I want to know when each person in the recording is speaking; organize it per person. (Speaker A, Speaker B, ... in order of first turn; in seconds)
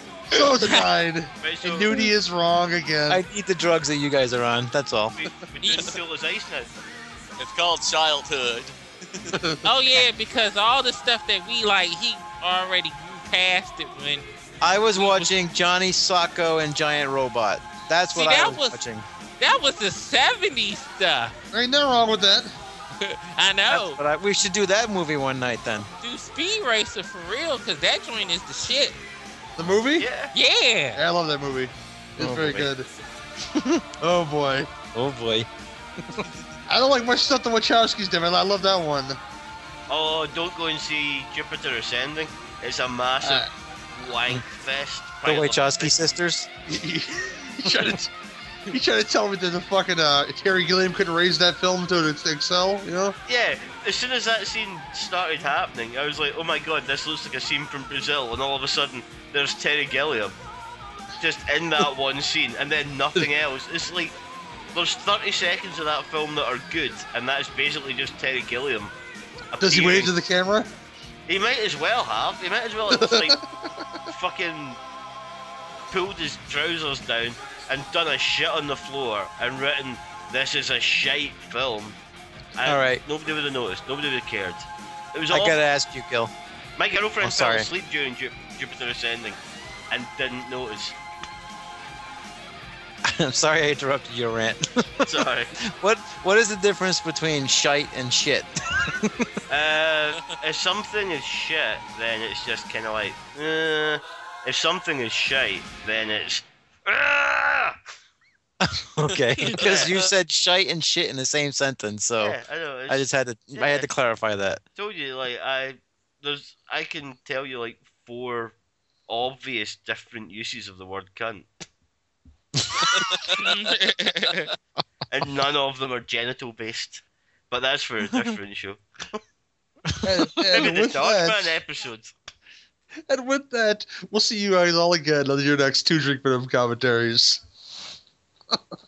Speaker A: 0.3-3.2, 9.3-9.6, 21.5-22.5, 29.6-30.1, 31.0-32.9, 34.0-34.7, 36.7-39.2, 43.2-43.5, 46.7-48.1, 48.7-53.2, 69.6-70.7, 72.9-73.8, 130.0-131.5, 133.1-137.4
Speaker B: 0.6-0.9, 5.6-5.9, 9.6-14.3, 14.9-15.3, 18.1-18.8, 19.4-21.4, 23.0-24.0, 26.0-29.0, 30.3-31.0, 123.4-124.5
Speaker C: 1.4-2.0, 5.2-6.7, 30.0-30.3, 39.9-46.0, 53.3-60.4, 61.2-64.2, 64.7-68.9, 69.5-70.1, 71.3-73.4, 74.1-74.8, 75.9-82.0, 82.6-85.6, 86.8-89.4, 89.9-91.0, 95.1-95.5, 99.5-107.8, 109.6-109.9, 112.2-113.9, 114.8-118.5, 119.1-121.5, 125.1-129.2, 130.5-132.1
Speaker D: 3.1-5.2, 14.6-19.1, 23.7-25.9, 32.2-32.7, 33.5-33.8, 34.9-35.5, 45.2-46.5, 82.7-83.0, 85.3-86.3, 87.2-87.7, 93.1-99.3, 108.6-112.4, 112.9-114.6
Speaker E: 7.4-9.3, 109.1-110.0